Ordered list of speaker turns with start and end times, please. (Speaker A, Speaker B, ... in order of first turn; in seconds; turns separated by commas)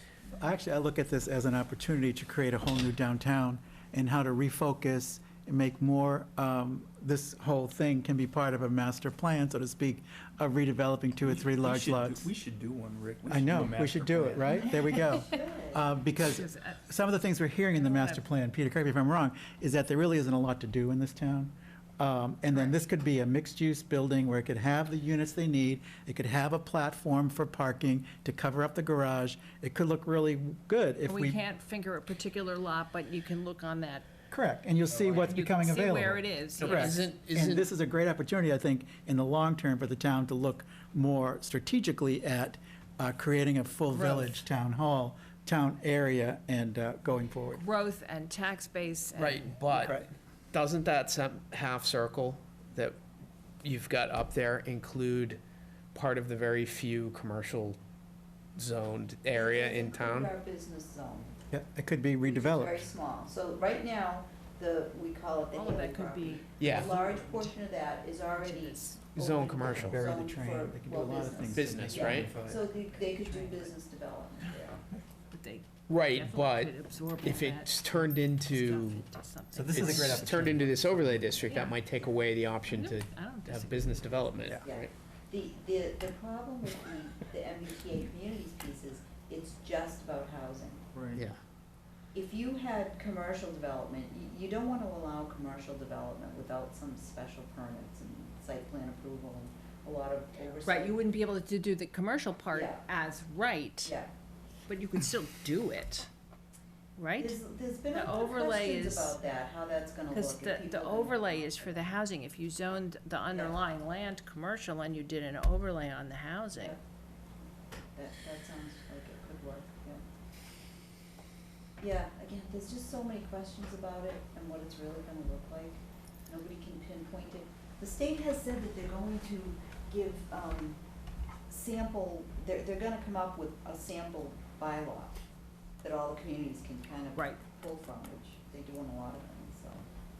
Speaker A: 0.3-12.3, Speaker B: 11.3-14.6, Speaker A: 13.3-31.4, Speaker C: 15.2-15.8, Speaker D: 16.2-16.8, Speaker D: 17.8-18.2, Speaker D: 31.1-34.0, Speaker A: 34.3-47.6, Speaker D: 35.2-37.0, Speaker E: 36.6-37.7, Speaker D: 43.9-44.4, Speaker D: 47.5-49.9, Speaker E: 49.2-50.0, Speaker A: 49.7-50.1, Speaker E: 50.5-53.0, Speaker E: 53.6-55.4, Speaker E: 55.9-57.8, Speaker E: 58.5-60.3, Speaker C: 59.3-61.3, Speaker A: 61.5-62.9, Speaker C: 62.2-74.8, Speaker D: 65.5-67.6, Speaker E: 66.6-67.0, Speaker D: 68.3-69.0, Speaker E: 69.1-70.0, Speaker A: 69.7-72.3, Speaker E: 71.5-72.6, Speaker B: 71.7-72.3, Speaker D: 73.0-73.7, Speaker D: 75.3-80.3, Speaker E: 75.9-79.0, Speaker A: 79.5-81.4, Speaker E: 79.7-84.9, Speaker D: 81.4-81.8, Speaker D: 82.7-84.5, Speaker C: 84.6-90.8, Speaker A: 90.9-91.2, Speaker C: 92.1-101.0, Speaker D: 100.6-103.9, Speaker C: 102.5-102.8, Speaker C: 103.8-104.1, Speaker D: 104.7-106.1, Speaker D: 107.0-109.2, Speaker C: 107.2-112.0, Speaker D: 110.1-116.8, Speaker C: 113.3-113.6, Speaker C: 118.0-120.0, Speaker C: 121.8-130.8, Speaker C: 131.5-135.2, Speaker C: 135.8-139.8, Speaker D: 137.1-137.4